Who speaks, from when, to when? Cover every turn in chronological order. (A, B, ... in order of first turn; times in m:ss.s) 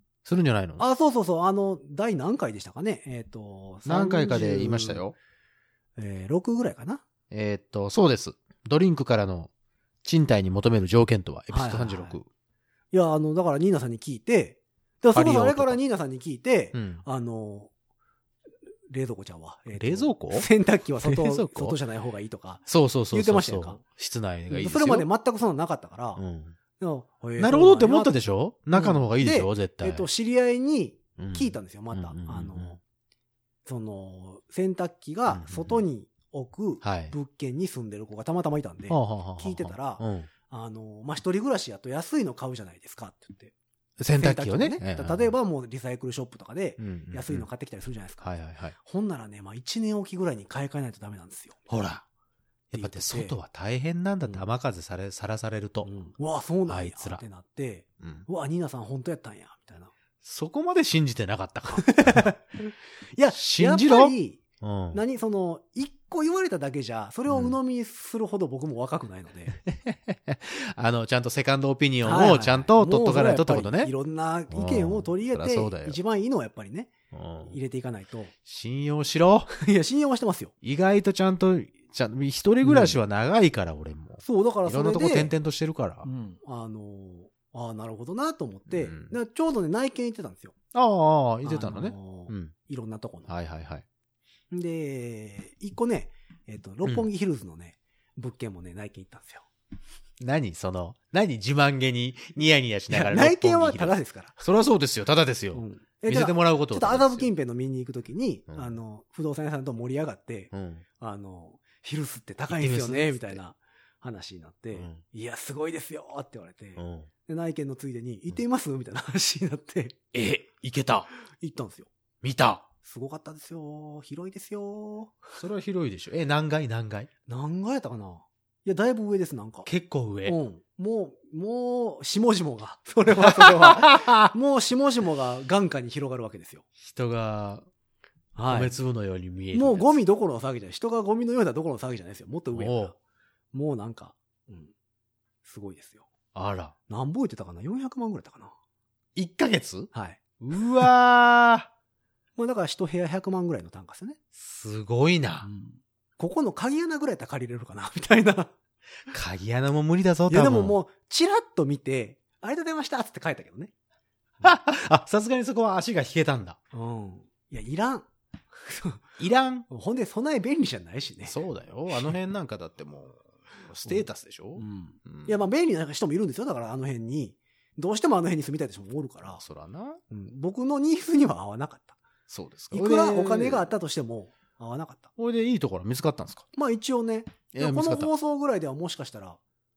0:00.2-0:00.8 A
0:00.8-0:05.0 B
0:03.8-0:05.2 A
0:06.0-0:07.0 B
0:07.3-0:09.5 A
0:10.0-0:12.3 A
0:11.5-0:12.2 B
0:12.9-0:17.7 B
0:15.1-0:15.8 A
0:16.7-0:17.0 A
0:18.9-0:23.8 B
0:19.8-0:20.5 A
0:21.0-0:21.8 A
0:22.7-0:25.1 A
0:24.5-0:26.2 B
0:26.2-0:26.6 A
0:26.8-0:28.2 B
0:27.4-0:30.1 A
0:28.7-0:32.8 B
0:31.2-0:32.8 A
0:33.7-0:43.5 B
0:35.3-0:35.8 A
0:36.8-0:37.1 A
0:38.9-0:40.3 A
0:44.0-0:45.3 A
0:44.2-0:51.7 B
0:46.8-0:47.5 A
0:48.2-0:48.8 A
0:51.7-0:52.0 A
0:52.7-0:55.9 A
0:52.8-0:53.4 B
0:55.8-0:59.9 B
0:56.7-0:57.2 A
0:58.0-0:58.3 A
1:00.2-1:02.3 A
1:01.7-1:04.4 B
1:03.3-1:05.0 A
1:04.9-1:09.6 B
1:07.3-1:07.6 A
1:09.7-1:13.9 A
1:12.0-1:18.3 B
1:14.5-1:16.0 A
1:17.1-1:17.6 A
1:18.5-1:19.5 A
1:19.5-1:20.5 B
1:20.6-1:26.1 A
1:22.6-1:23.0 B
1:24.2-1:25.3 B
1:26.0-1:30.6 B
1:28.7-1:29.1 A
1:30.7-1:32.5 A
1:31.4-1:33.3 B
1:33.3-1:33.8 A
1:34.5-1:39.5 B
1:40.2-1:47.3 A
1:42.9-1:44.4 B
1:45.5-2:00.0 B
1:50.5-1:50.8 A
1:52.5-1:53.4 A
1:54.7-1:55.0 A
1:56.8-1:57.1 A
2:00.1-2:01.1 A
2:01.4-2:01.9 B
2:02.2-2:02.7 A
2:02.8-2:05.3 B
2:05.4-2:07.1 A
2:07.3-2:09.7 B
2:09.7-2:10.4 A
2:10.2-2:16.6 B
2:13.2-2:14.3 A
2:16.8-2:17.7 A
2:18.4-2:18.7 B
2:18.5-2:20.0 A
2:19.5-2:23.0 B
2:22.5-2:22.9 A
2:23.5-2:24.7 B
2:25.4-2:26.1 B
2:26.3-2:26.7 A
2:26.9-2:28.5 B
2:29.2-2:31.7 A
2:29.9-2:30.8 B
2:32.4-2:34.2 B
2:34.4-2:35.5 A
2:35.4-2:38.5 B
2:39.1-2:40.8 A
2:40.3-2:43.7 B
2:44.4-2:46.6 A
2:46.7-2:48.1 B
2:48.6-2:49.0 B
2:49.2-2:49.7 A
2:49.7-2:51.4 B
2:51.3-2:55.4 A
2:53.9-2:59.4 B
2:59.2-3:00.0 A
3:00.1-3:02.0 B
3:02.3-3:03.7 A
3:02.7-3:05.1 B
3:05.2-3:06.5 A
3:06.6-3:09.4 B
3:07.5-3:08.1 A